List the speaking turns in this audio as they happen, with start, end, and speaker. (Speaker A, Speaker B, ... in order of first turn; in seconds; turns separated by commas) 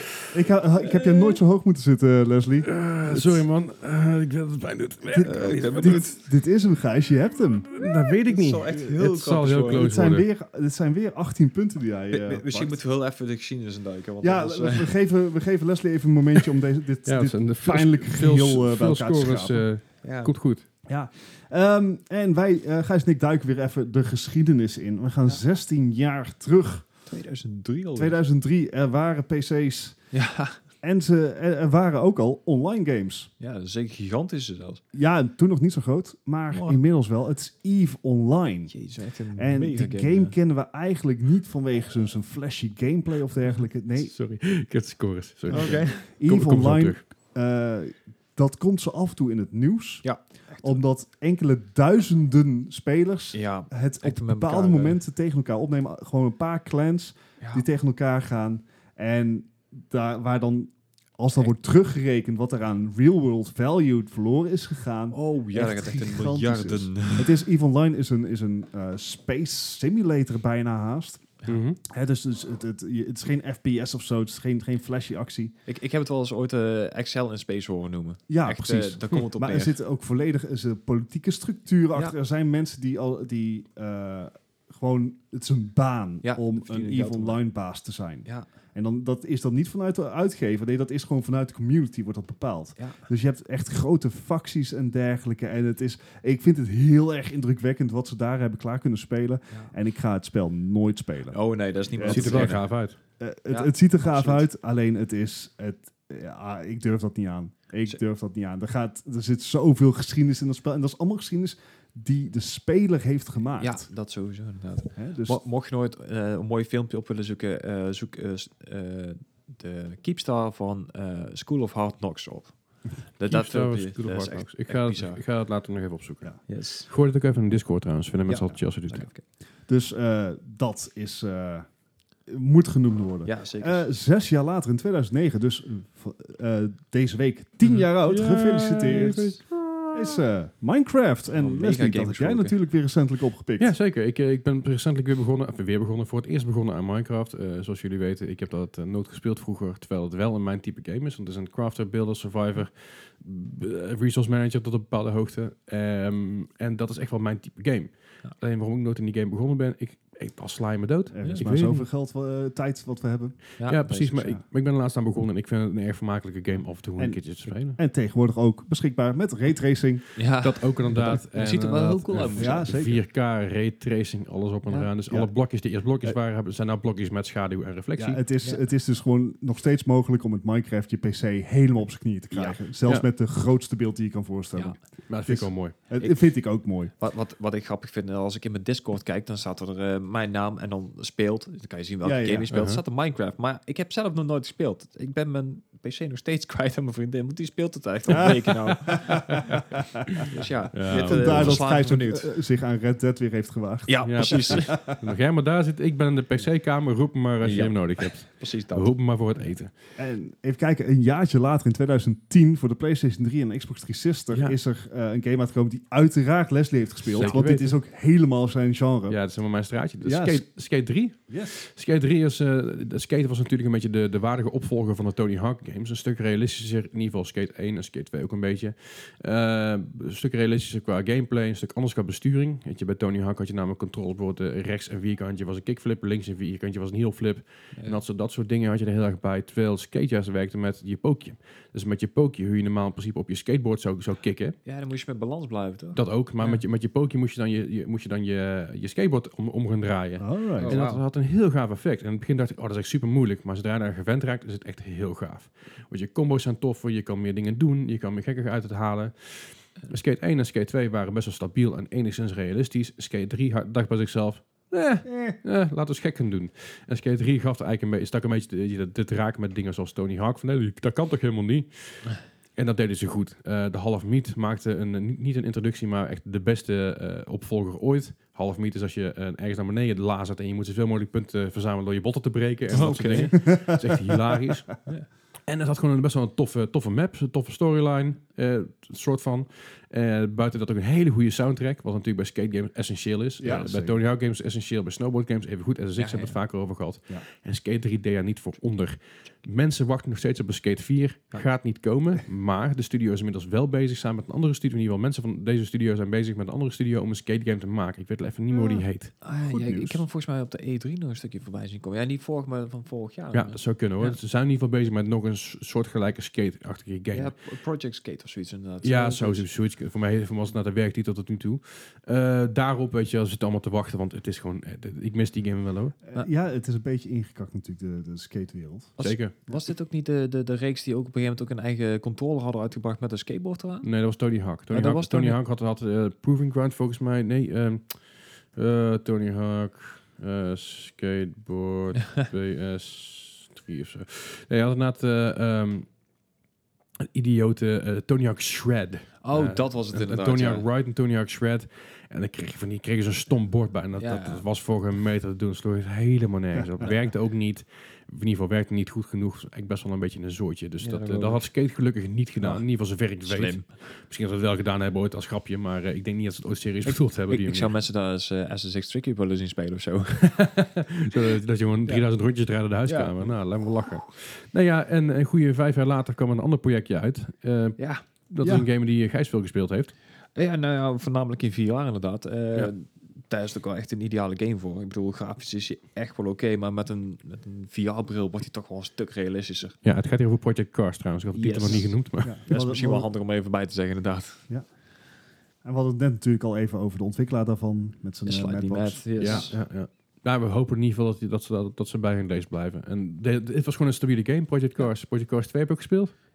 Speaker A: 0.3-3.5, Speaker B: 2.6-6.0, Speaker A: 5.0-7.7, Speaker C: 5.2-6.2, Speaker B: 7.7-10.2, Speaker C: 8.0-9.9, Speaker A: 9.5-12.8, Speaker C: 12.1-14.9, Speaker A: 14.2-19.6, Speaker B: 17.0-20.6, Speaker C: 20.0-20.3, Speaker A: 20.9-26.8, Speaker C: 27.1-28.2, Speaker A: 27.9-30.0, Speaker C: 30.1-30.6, Speaker A: 30.8-33.3, Speaker C: 33.4-34.8, Speaker A: 34.9-38.8, Speaker C: 36.5-36.8, Speaker C: 38.7-40.3, Speaker A: 39.3-44.1, Speaker B: 44.0-47.0, Speaker A: 45.5-50.1, Speaker C: 45.5-46.1, Speaker C: 50.0-50.8, Speaker A: 50.6-75.5, Speaker C: 53.3-55.0, Speaker C: 65.1-67.4, Speaker B: 71.5-71.8, Speaker C: 75.7-79.7, Speaker A: 78.3-113.9, Speaker C: 86.2-87.4, Speaker C: 92.8-93.0, Speaker C: 101.3-102.7, Speaker B: 102.0-103.0, Speaker C: 103.5-104.4, Speaker C: 113.6-125.2, Speaker A: 114.9-115.4, Speaker B: 123.3-129.1, Speaker C: 126.5-126.9, Speaker C: 128.3-129.2, Speaker A: 129.7-131.7, Speaker A: 132.2-139.4, Speaker C: 133.2-133.9, Speaker B: 138.0-140.2, Speaker C: 138.8-139.4, Speaker A: 139.9-143.7, Speaker C: 141.3-142.5, Speaker B: 143.6-161.9, Speaker A: 161.1-163.5, Speaker C: 163.6-164.4, Speaker B: 163.6-167.8, Speaker A: 167.0-170.2, Speaker C: 170.2-172.7, Speaker B: 170.4-178.2, Speaker A: 170.9-171.2, Speaker A: 172.2-173.0, Speaker A: 174.9-175.3, Speaker A: 178.0-186.9, Speaker C: 182.3-182.6, Speaker B: 185.1-185.8, Speaker C: 186.0-186.3, Speaker C: 187.0-199.6, Speaker A: 192.0-192.5, Speaker B: 192.5-192.8, Speaker B: 198.7-201.6, Speaker A: 200.0-200.2, Speaker C: 200.3-202.3, Speaker A: 200.8-205.0, Speaker C: 203.9-204.8, Speaker B: 204.0-209.7, Speaker C: 207.4-208.9, Speaker A: 210.0-219.2, Speaker B: 214.3-214.6, Speaker B: 217.1-217.8, Speaker C: 217.2-217.4, Speaker B: 219.1-244.6, Speaker A: 220.0-220.4, Speaker A: 221.3-221.6, Speaker C: 237.7-238.0, Speaker C: 244.6-246.6, Speaker B: 245.9-284.7, Speaker A: 250.2-250.8, Speaker C: 250.6-251.0, Speaker A: 265.0-265.4, Speaker C: 282.7-283.8, Speaker A: 283.1-284.1, Speaker B: 285.5-309.1, Speaker A: 293.4-294.0, Speaker C: 296.0-296.4, Speaker A: 308.5-310.0, Speaker C: 309.2-314.2, Speaker B: 313.3-317.3, Speaker C: 317.1-319.5, Speaker B: 318.8-325.9, Speaker A: 326.0-329.0, Speaker C: 329.0-333.9, Speaker B: 329.0-329.4, Speaker B: 333.8-345.9, Speaker C: 334.7-335.4, Speaker B: 347.0-367.7, Speaker C: 349.2-350.6, Speaker C: 354.0-354.4, Speaker A: 356.5-356.9, Speaker C: 360.8-361.6, Speaker C: 362.4-363.7, Speaker C: 366.8-370.5, Speaker B: 370.2-379.9, Speaker C: 371.1-372.0, Speaker C: 372.9-373.9, Speaker C: 377.8-378.0, Speaker A: 378.4-378.7, Speaker C: 380.3-389.8, Speaker B: 389.8-392.4, Speaker C: 391.3-394.5, Speaker A: 392.2-393.1, Speaker A: 395.6-399.5, Speaker C: 398.2-399.6, Speaker B: 399.2-406.1